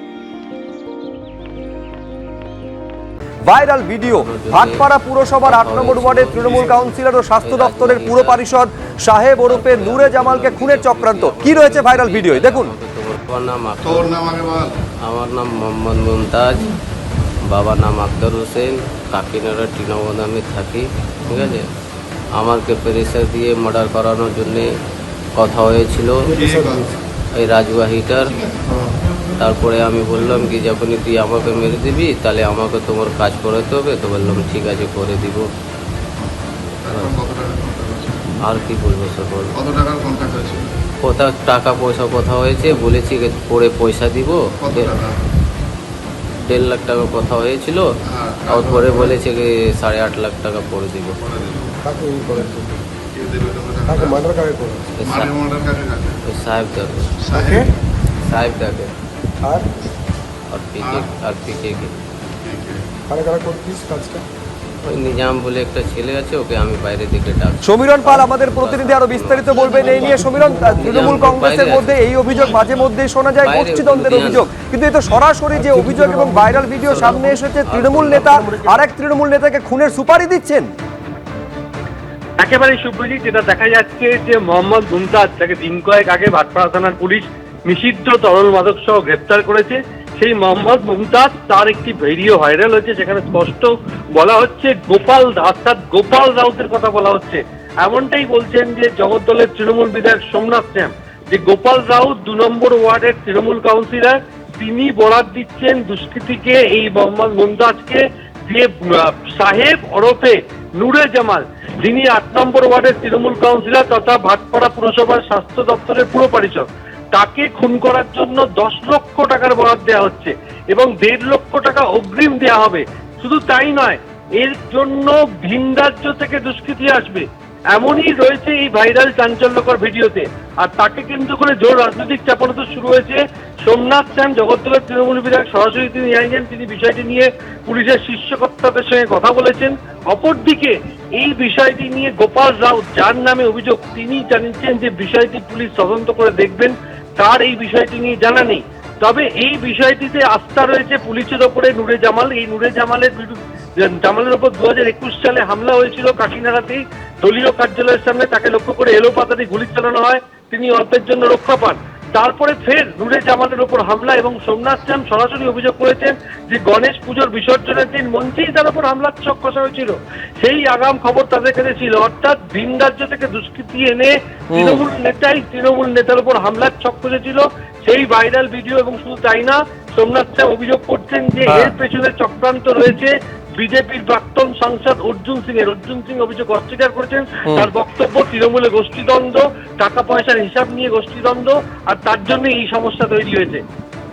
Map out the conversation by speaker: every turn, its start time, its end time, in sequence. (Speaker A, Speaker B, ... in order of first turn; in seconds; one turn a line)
Speaker A: 3.5-12.7
Speaker B: 4.1-4.9
Speaker B: 5.4-6.7
Speaker B: 7.4-8.4
Speaker B: 9.4-14.3
Speaker C: 13.8-14.8
Speaker B: 15.0-16.7
Speaker B: 17.5-21.7
Speaker B: 22.4-24.7
Speaker B: 25.4-26.4
Speaker D: 26.2-26.9
Speaker C: 26.4-26.9
Speaker B: 27.3-28.4
Speaker C: 28.6-28.9
Speaker B: 29.4-35.5
Speaker C: 36.8-38.3
Speaker B: 36.9-37.2
Speaker B: 38.4-39.5
Speaker C: 39.5-40.8
Speaker B: 41.0-45.0
Speaker C: 44.6-45.2
Speaker B: 46.4-47.9
Speaker C: 48.1-49.2
Speaker B: 48.5-51.2
Speaker C: 51.2-51.8
Speaker D: 51.9-52.8
Speaker C: 53.1-54.3
Speaker D: 53.9-54.9
Speaker B: 55.0-55.4
Speaker C: 55.0-56.2
Speaker B: 56.2-57.1
Speaker C: 57.2-57.7
Speaker D: 57.3-57.7
Speaker B: 58.2-58.9
Speaker B: 60.5-61.9
Speaker C: 60.8-61.1
Speaker C: 62.4-62.9
Speaker D: 63.1-64.2
Speaker B: 64.8-72.0
Speaker A: 67.6-80.7
Speaker D: 69.6-71.4
Speaker B: 73.4-74.5
Speaker D: 75.5-77.3
Speaker B: 76.8-78.4
Speaker E: 82.4-193.6
Speaker A: 174.5-174.8
Speaker A: 181.5-181.8